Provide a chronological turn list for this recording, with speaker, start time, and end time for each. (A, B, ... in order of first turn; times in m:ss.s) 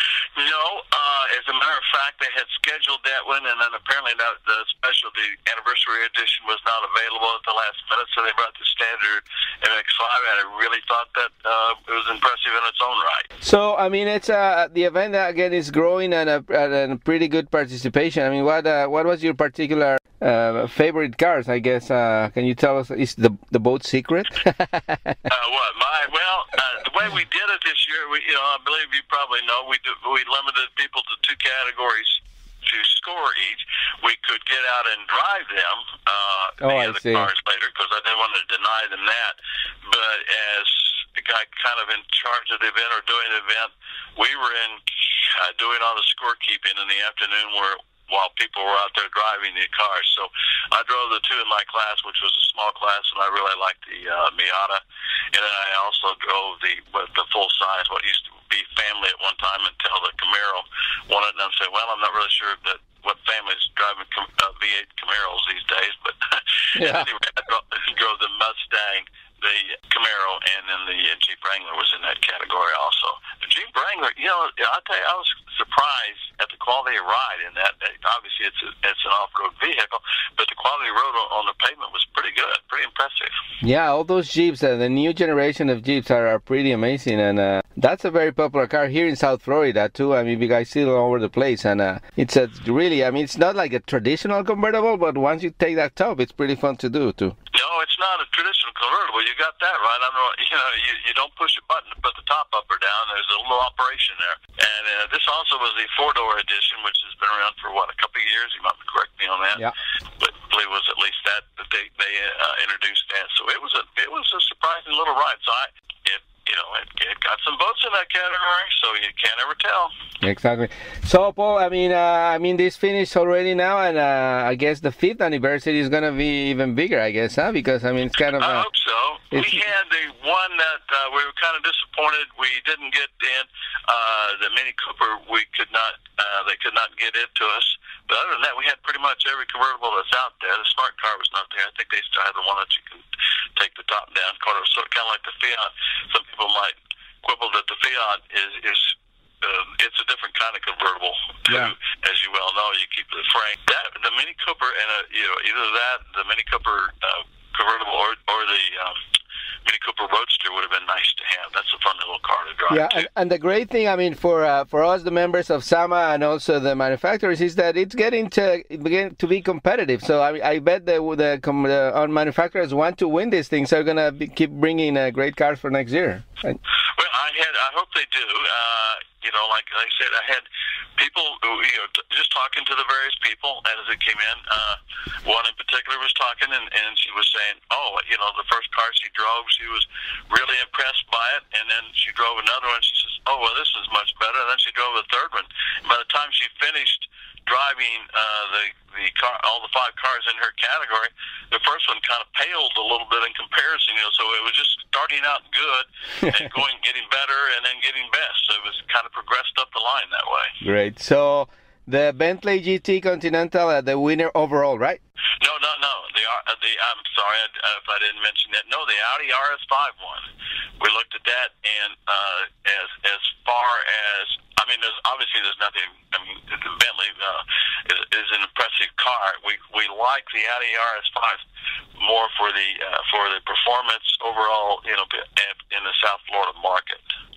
0:00.4-0:13.2 A
0:13.4-0:25.2 B
0:25.3-1:23.3 A
0:36.6-0:37.3 B
1:06.8-1:07.1 B
1:23.6-1:37.3 B
1:37.5-1:59.9 A
2:00.2-2:08.7 B
2:08.4-2:39.0 A
2:09.3-2:09.6 B
2:31.5-2:31.7 B
2:39.6-2:43.1 A
2:42.7-2:56.6 B
2:57.0-3:30.5 A
3:30.6-3:35.0 B
3:35.4-3:40.2 A
3:40.8-3:51.4 A
3:52.0-3:57.0 A